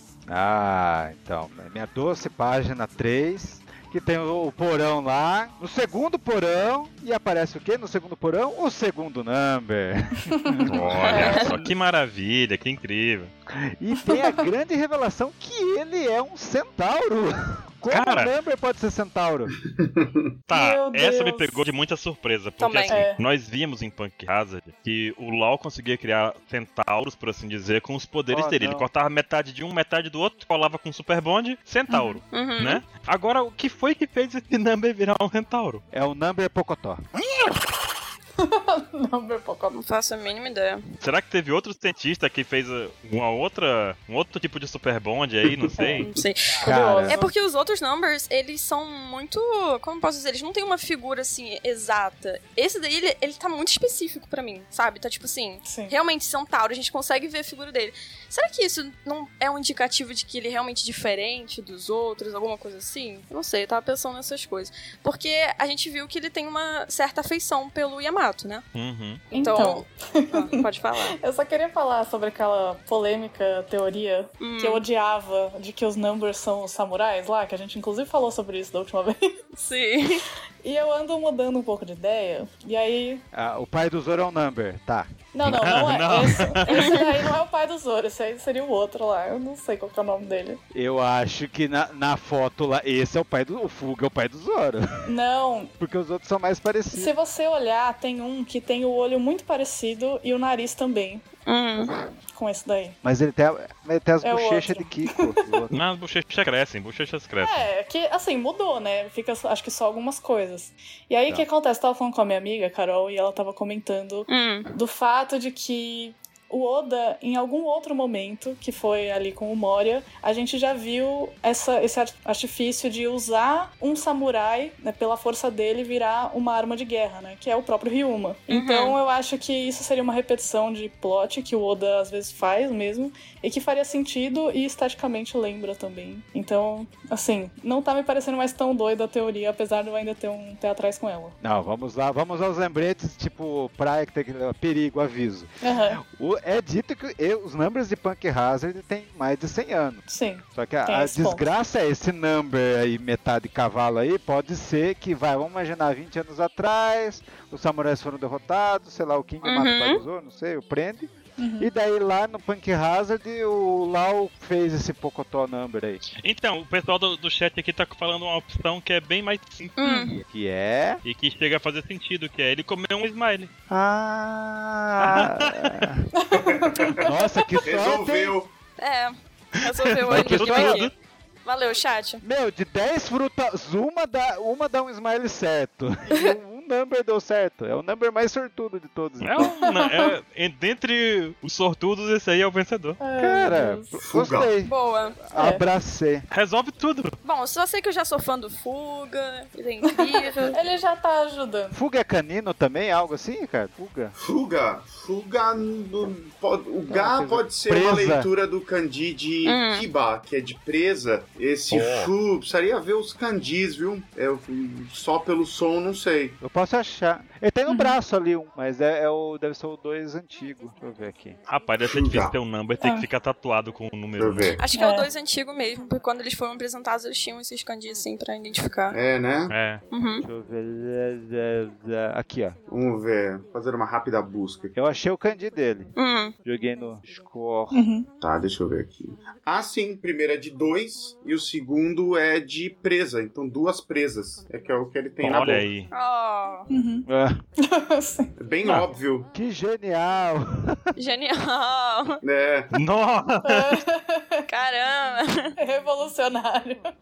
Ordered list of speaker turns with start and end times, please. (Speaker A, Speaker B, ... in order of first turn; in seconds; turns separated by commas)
Speaker A: 0.3-11.6, Speaker B: 10.3-11.5, Speaker C: 10.7-13.3, Speaker D: 11.2-11.5, Speaker A: 13.5-19.5, Speaker B: 14.0-14.4, Speaker C: 17.9-18.3, Speaker E: 19.8-20.3, Speaker C: 20.5-35.8, Speaker B: 20.5-21.6, Speaker D: 22.6-23.1, Speaker B: 22.9-23.2, Speaker A: 28.3-28.9, Speaker B: 31.9-32.2, Speaker D: 32.3-32.8, Speaker A: 35.9-37.0, Speaker B: 38.4-39.8, Speaker D: 39.7-40.8, Speaker C: 41.0-46.1, Speaker B: 45.8-47.3, Speaker D: 46.0-68.6, Speaker A: 46.6-47.2, Speaker B: 55.6-55.9, Speaker C: 68.7-69.2, Speaker D: 69.3-71.2, Speaker B: 69.3-79.4, Speaker D: 74.4-74.8, Speaker D: 79.5-80.2, Speaker B: 80.6-83.2, Speaker A: 83.3-85.1, Speaker B: 85.3-90.6, Speaker C: 85.4-86.9, Speaker D: 86.6-87.2, Speaker A: 90.7-95.1, Speaker B: 95.0-95.7, Speaker A: 95.8-97.1, Speaker B: 96.9-101.2, Speaker D: 101.5-101.9, Speaker B: 102.3-103.0, Speaker A: 103.0-105.7, Speaker B: 104.2-104.9, Speaker C: 105.7-107.6, Speaker B: 107.4-141.3, Speaker D: 114.3-114.7, Speaker D: 128.5-129.0, Speaker A: 141.4-166.0, Speaker B: 145.6-146.0, Speaker B: 150.1-151.5, Speaker D: 159.4-160.0, Speaker B: 161.4-161.7, Speaker C: 166.2-169.7, Speaker D: 169.8-170.2, Speaker B: 169.8-170.1, Speaker A: 170.3-171.0, Speaker C: 171.0-173.5, Speaker A: 173.7-176.1, Speaker C: 175.0-175.8, Speaker B: 176.1-177.6, Speaker E: 176.4-177.1, Speaker A: 177.0-178.4, Speaker E: 177.6-178.5, Speaker D: 178.8-180.9, Speaker C: 179.6-180.9, Speaker A: 180.1-180.9, Speaker D: 181.4-182.2, Speaker A: 182.2-189.6, Speaker C: 189.2-193.0, Speaker B: 189.6-190.1, Speaker B: 193.0-194.0, Speaker A: 193.2-196.2, Speaker E: 194.0-194.5, Speaker D: 194.6-195.2, Speaker B: 195.3-195.6, Speaker C: 196.3-197.1, Speaker D: 197.2-200.6, Speaker B: 199.8-201.8, Speaker A: 201.7-204.1, Speaker E: 204.2-216.4, Speaker A: 206.9-208.3, Speaker D: 209.4-209.9, Speaker C: 211.7-212.1, Speaker A: 216.4-221.4, Speaker B: 217.7-217.9, Speaker C: 221.5-224.6, Speaker E: 221.9-222.3, Speaker B: 222.8-223.1, Speaker E: 224.2-224.6, Speaker D: 224.6-229.0, Speaker B: 224.7-225.1, Speaker E: 228.9-229.5, Speaker C: 229.5-229.8, Speaker D: 229.9-230.2, Speaker A: 230.2-232.6, Speaker E: 232.7-234.7, Speaker A: 234.7-235.9, Speaker D: 235.9-236.3, Speaker A: 236.4-237.8, Speaker B: 237.7-238.1, Speaker E: 238.2-245.7, Speaker C: 245.2-245.9, Speaker D: 245.9-246.7, Speaker B: 246.7-247.1, Speaker A: 247.1-247.4, Speaker B: 247.6-248.3, Speaker E: 248.4-249.3, Speaker A: 249.3-250.9, Speaker D: 250.9-252.2, Speaker E: 252.2-252.7, Speaker C: 252.7-253.8, Speaker B: 253.4-254.4, Speaker D: 254.5-255.5, Speaker B: 255.6-256.9